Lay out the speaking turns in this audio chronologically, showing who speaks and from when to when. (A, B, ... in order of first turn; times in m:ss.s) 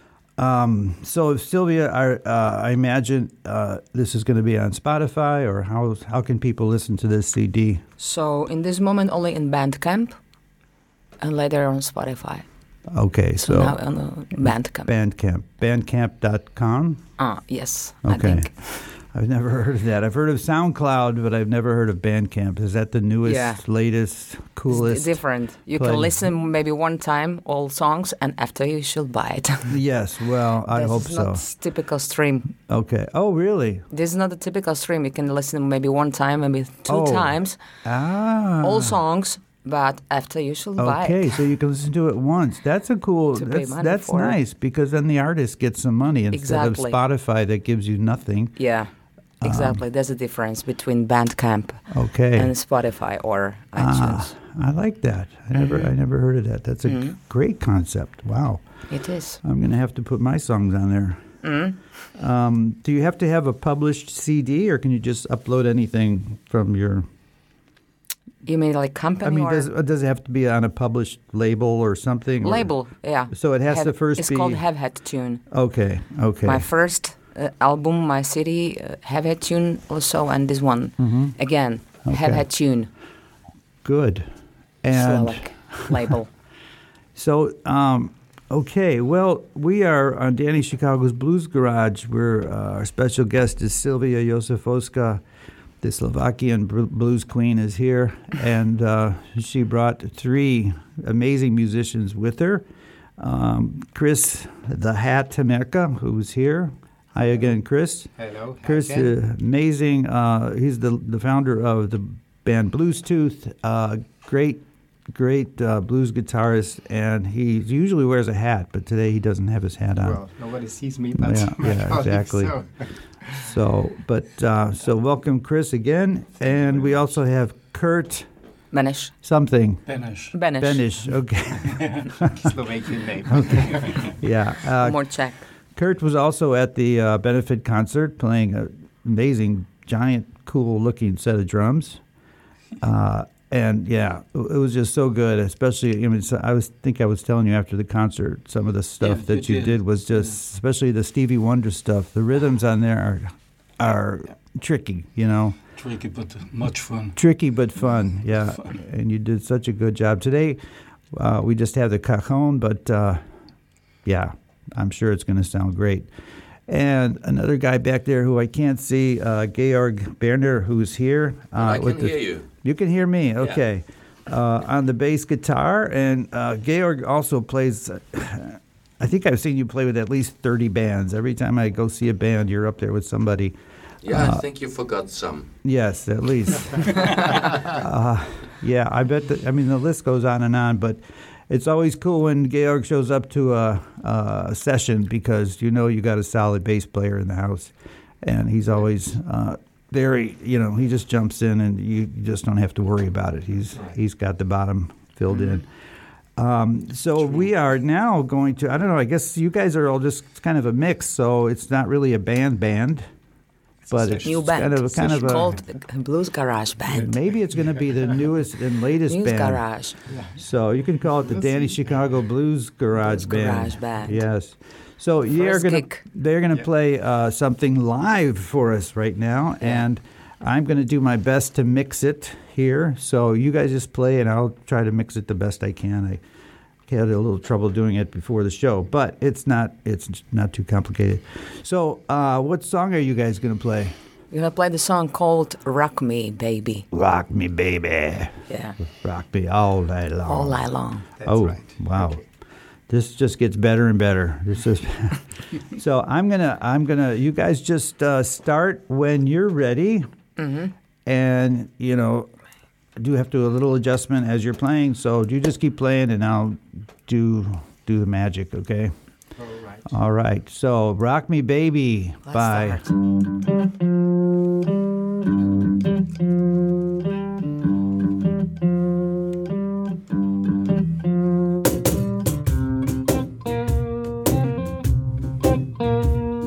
0:00.4-0:07.8 A
0:08.0-0:10.1 B
0:11.2-0:12.4 B
0:12.9-0:13.8 A
0:13.4-0:14.9 B
0:14.4-0:17.0 A
0:17.2-0:18.7 B
0:18.0-0:25.2 A
0:23.2-0:23.6 B
0:24.7-0:29.8 B
0:25.7-0:26.2 A
0:29.7-0:31.4 A
0:30.7-0:32.5 B
0:32.7-0:33.8 A
0:33.9-0:37.6 B
0:36.9-0:39.0 A
0:38.6-0:41.4 B
0:40.8-0:48.6 A
0:43.4-0:44.4 B
0:46.3-0:47.0 B
0:48.6-0:54.3 B
0:49.4-0:49.8 A
0:51.9-0:52.5 A
0:53.8-0:58.6 A
0:55.6-0:55.8 B
0:56.9-0:57.2 B
0:58.9-0:59.4 B
0:59.4-1:01.2 A
1:01.4-1:01.8 B
1:02.2-1:07.1 A
1:08.4-1:09.7 B
1:09.2-1:12.7 A
1:12.4-1:15.4 B
1:13.3-1:14.6 A
1:15.5-1:16.7 A
1:16.4-1:22.9 B
1:21.0-1:21.3 A
1:22.0-1:22.4 A
1:23.8-1:24.3 A
1:24.8-1:26.0 A
1:24.9-1:26.3 B
1:27.1-1:35.2 A
1:35.8-1:42.6 A
1:43.2-1:48.1 A
1:48.2-1:49.1 C
1:48.6-2:00.2 A
2:00.0-2:02.8 C
2:01.2-2:02.6 A
2:03.3-2:08.3 A
2:08.7-2:09.1 B
2:09.2-2:09.8 A
2:09.9-2:10.3 D
2:10.3-2:10.8 B
2:10.5-2:12.4 A
2:11.7-2:12.2 D
2:12.3-2:14.1 C
2:13.3-2:15.1 A
2:14.8-2:15.4 B
2:15.7-2:22.0 A
2:22.8-2:35.6 A
2:29.0-2:30.3 D
2:35.8-2:37.2 D
2:37.2-2:40.6 A
2:41.1-2:43.2 A
2:44.0-2:46.1 A
2:46.7-3:03.6 A
2:51.5-2:52.5 E
3:04.0-3:05.5 E
3:04.1-3:04.4 A
3:05.6-3:25.7 A
3:26.4-3:33.1 A
3:33.9-3:35.6 A
3:34.2-3:37.1 B
3:36.9-3:39.7 A
3:39.1-3:40.0 B
3:40.1-3:40.4 C
3:40.4-3:56.2 A
3:43.0-3:44.2 B
3:45.4-3:46.0 B
3:56.9-4:03.9 A
4:04.3-4:06.8 B
4:06.9-4:10.6 A
4:08.5-4:08.8 B
4:10.2-4:11.1 B
4:11.2-4:12.2 C
4:11.2-4:12.2 A
4:12.9-4:20.1 A
4:20.4-4:20.7 B
4:21.0-4:22.3 A
4:23.0-4:28.9 A
4:29.4-4:29.8 C
4:29.9-4:32.8 A
4:32.3-4:32.9 B